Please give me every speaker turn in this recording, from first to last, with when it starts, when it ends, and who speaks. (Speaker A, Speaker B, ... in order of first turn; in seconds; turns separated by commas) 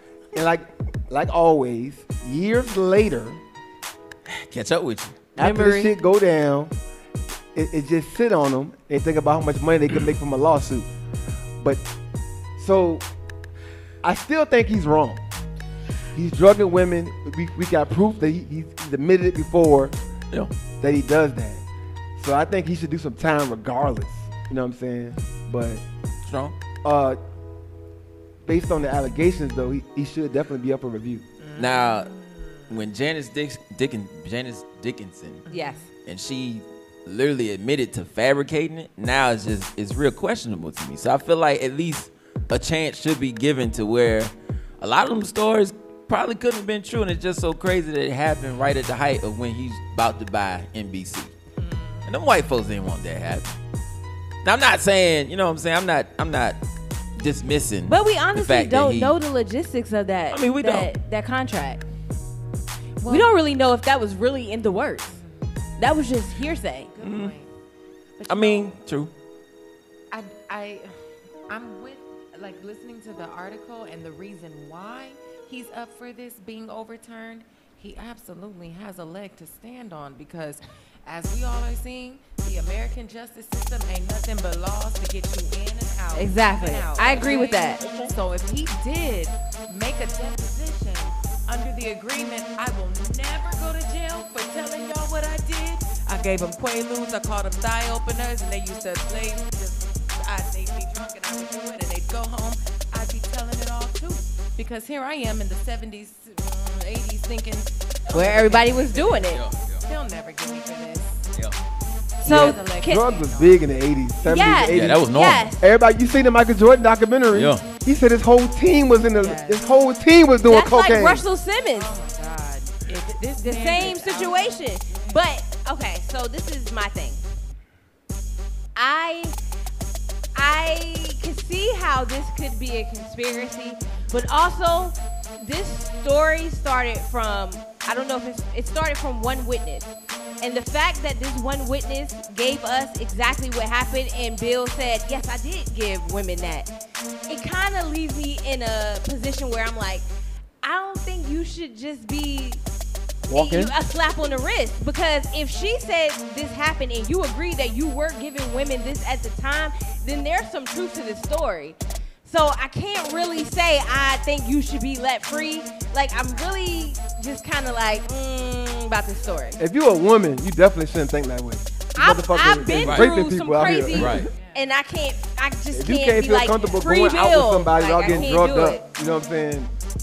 Speaker A: 0.3-3.4, Speaker B: 4.3-5.3, Speaker C: 5.3-5.9, Speaker A: 5.4-6.7, Speaker A: 7.5-10.9, Speaker A: 12.6-13.0, Speaker A: 14.0-15.2, Speaker A: 16.1-19.9, Speaker A: 20.8-21.6, Speaker A: 22.2-25.8, Speaker B: 26.2-26.6, Speaker A: 26.8-27.2, Speaker A: 28.5-31.3, Speaker D: 31.4-32.7, Speaker B: 31.6-32.1, Speaker B: 32.7-51.3, Speaker D: 35.5-35.9, Speaker C: 35.5-35.9, Speaker D: 51.6-52.1, Speaker B: 52.1-53.6, Speaker B: 54.4-56.6, Speaker B: 57.2-59.2, Speaker C: 57.9-61.8, Speaker B: 60.3-60.9, Speaker D: 63.0-63.3, Speaker C: 63.1-65.2, Speaker D: 65.2-65.5, Speaker C: 65.8-66.9, Speaker D: 67.0-67.5, Speaker B: 67.0-67.3, Speaker D: 68.2-68.8, Speaker B: 68.2-69.1, Speaker D: 70.1-70.9, Speaker D: 71.5-109.3, Speaker C: 86.2-87.9, Speaker C: 108.1-109.4, Speaker B: 109.2-109.8, Speaker D: 109.8-111.2, Speaker C: 112.2-113.0, Speaker D: 112.2-113.7, Speaker A: 112.2-121.2, Speaker C: 114.2-115.7, Speaker B: 114.7-115.5, Speaker B: 117.3-117.7, Speaker D: 119.2-119.7, Speaker C: 120.4-122.0, Speaker D: 121.8-125.2, Speaker C: 123.4-127.2, Speaker C: 128.8-129.3, Speaker C: 130.3-146.7, Speaker C: 147.3-150.1, Speaker C: 150.6-152.6, Speaker A: 153.3-153.7, Speaker C: 153.3-169.6, Speaker A: 169.6-174.3, Speaker C: 172.0-178.8, Speaker B: 172.8-173.1, Speaker B: 173.9-174.3, Speaker D: 174.1-174.7, Speaker A: 175.7-179.7